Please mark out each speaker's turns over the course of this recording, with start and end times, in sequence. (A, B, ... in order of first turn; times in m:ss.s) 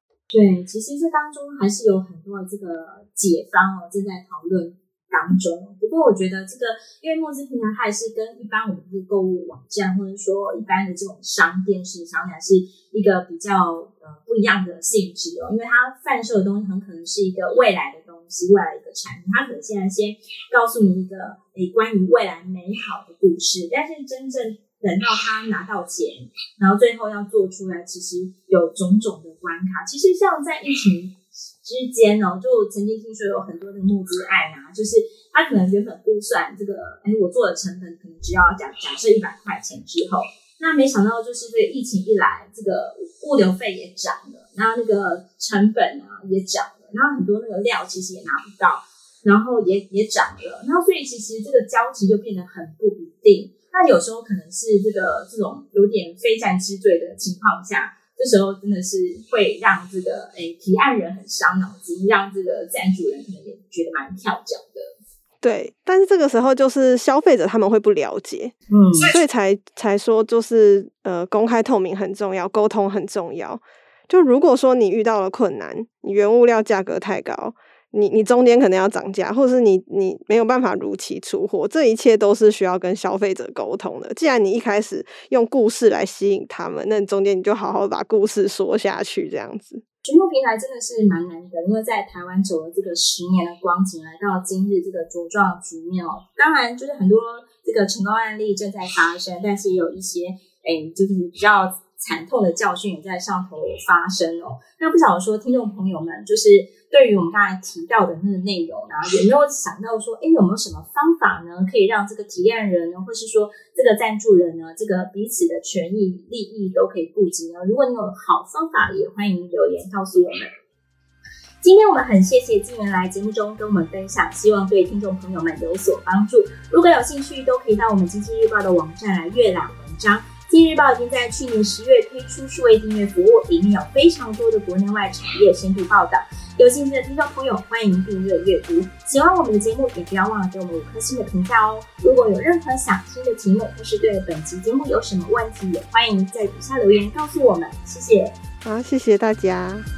0:00.3-1:04.9 A
1:05.4-1:08.5 B
1:08.7-1:09.1 A
1:09.1-1:29.8 B
1:30.0-2:00.6 A
2:01.6-2:28.4 A
2:28.6-2:29.8 B